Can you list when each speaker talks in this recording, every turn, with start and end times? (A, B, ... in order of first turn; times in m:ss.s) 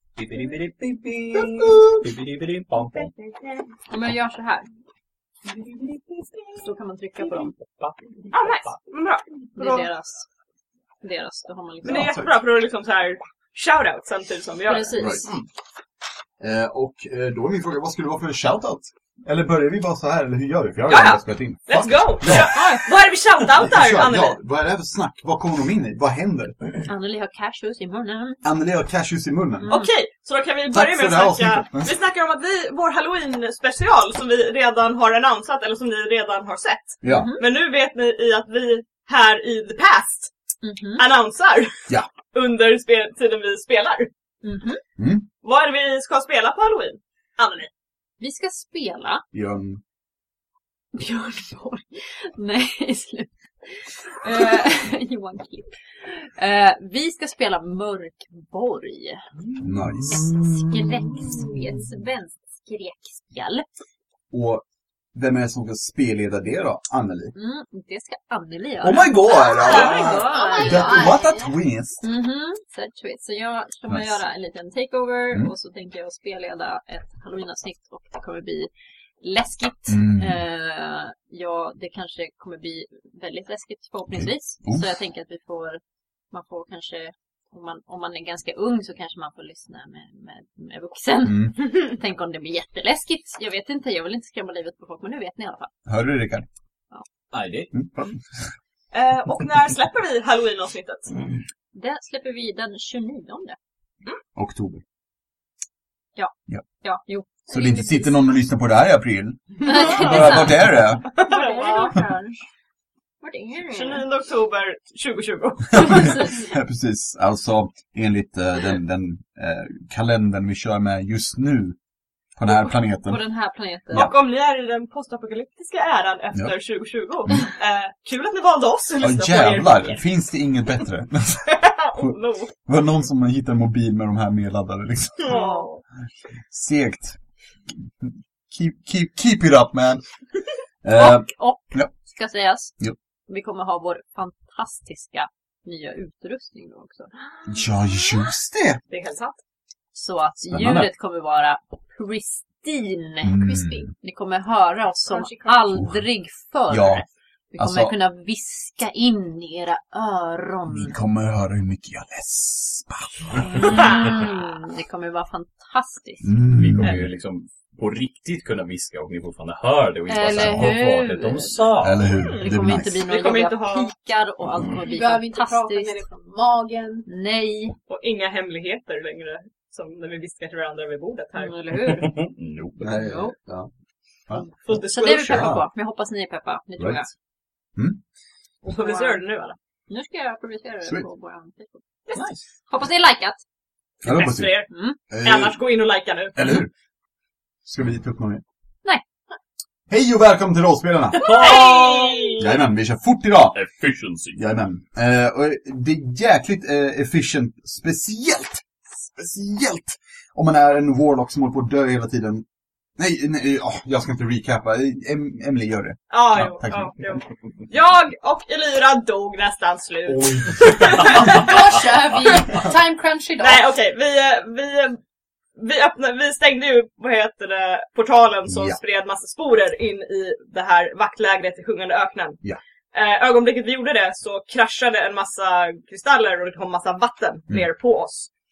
0:00.2-0:03.1 A
0:01.3-0:02.1 B
0:02.9-0:03.7 C
0:03.9-0:04.7 D
0:05.5-0:06.0 A
0:06.6-0:07.5 D
0:07.2-0:08.7 A
0:08.3-0:09.9 C
0:09.6-0:10.2 D
0:11.0-0:12.2 D
0:11.8-0:12.3 B
0:11.8-0:15.0 C
0:14.6-0:15.3 D
0:15.0-0:15.3 B
0:16.4-0:22.5 B
0:20.9-0:24.4 C
0:22.2-0:22.8 D
0:23.6-0:26.8 B
0:26.8-0:28.4 D
0:28.4-0:29.7 B
0:29.6-0:29.9 D
0:29.7-0:40.3 C
0:30.7-0:32.0 B
0:37.0-0:37.3 B
0:37.0-0:37.4 D
0:40.6-0:41.1 D
0:41.0-0:44.1 C
0:44.4-0:44.8 D
0:45.0-0:45.3 B
0:45.4-0:47.7 C
0:48.2-0:49.2 D
0:49.3-0:49.8 B
0:50.9-0:59.2 D
0:59.6-1:01.6 B
1:00.6-1:03.7 D
1:04.3-1:07.3 B
1:07.3-1:11.1 D
1:08.8-1:12.0 B
1:09.6-1:11.5 E
1:12.0-1:35.7 D
1:13.9-1:14.1 B
1:19.9-1:20.4 B
1:24.1-1:24.9 B
1:31.2-1:31.6 B
1:35.8-1:36.5 B
1:37.3-1:37.7 A
1:37.7-1:38.5 B
1:38.9-1:41.2 C
1:41.7-1:43.6 D
1:44.4-1:44.8 B
1:46.2-1:48.2 D
1:47.5-1:51.1 B
1:49.6-1:52.4 D
1:51.1-1:52.0 C
1:53.2-1:54.0 D
1:53.7-1:56.2 C
1:55.7-2:01.8 B
1:55.8-1:56.4 D
2:02.4-2:03.2 B
2:02.5-2:04.1 D
2:03.9-2:10.0 C
2:09.0-2:15.4 B
2:11.5-2:12.5 C
2:15.2-2:15.8 C
2:15.3-2:15.7 D
2:16.5-2:17.2 B
2:17.7-2:20.0 B
2:20.8-2:21.9 B
2:20.9-2:22.7 D
2:23.3-2:27.1 D
2:27.4-2:28.8 B
2:28.9-2:29.4 C
2:29.9-2:33.4 D
2:30.5-2:30.9 B
2:33.2-2:33.9 B
2:33.3-2:33.9 E
2:34.0-2:40.9 D
2:35.2-2:35.5 C
2:36.7-2:37.0 B
2:37.6-2:38.0 B
2:40.7-2:43.8 B
2:43.4-2:46.3 D
2:46.2-2:47.1 B
2:46.5-2:52.2 A
2:50.1-2:51.6 D
2:50.4-2:50.7 B
2:51.8-2:53.0 B
2:52.1-2:56.1 D
2:52.3-2:53.9 C
2:54.8-2:57.1 E
2:57.1-2:57.8 D
2:57.9-3:01.7 C
3:01.4-3:02.2 D
3:01.9-3:02.7 A
3:02.8-3:03.7 B
3:02.8-3:03.3 D
3:04.3-3:05.6 B
3:04.4-3:07.1 D
3:04.6-3:05.5 C
3:06.8-3:07.0 B
3:07.7-3:08.0 B
3:08.6-3:09.2 D
3:08.6-3:09.6 C
3:09.9-3:13.4 D
3:12.1-3:12.4 A
3:14.0-3:14.7 C
3:14.0-3:15.6 B
3:14.7-3:15.0 D
3:15.2-3:16.6 C
3:16.4-3:16.7 B
3:17.6-3:18.4 B
3:19.9-3:21.2 B
3:21.2-3:21.8 A
3:21.2-3:22.5 C
3:21.4-3:22.3 D
3:22.4-3:23.6 B
3:23.5-3:24.4 A
3:24.3-3:32.4 B
3:33.0-3:37.0 B
3:36.1-3:41.6 C
3:40.0-3:41.2 B
3:41.2-3:43.6 E
3:43.4-3:45.0 C
3:45.6-3:52.4 C
3:48.5-3:48.8 B
3:52.9-3:58.3 C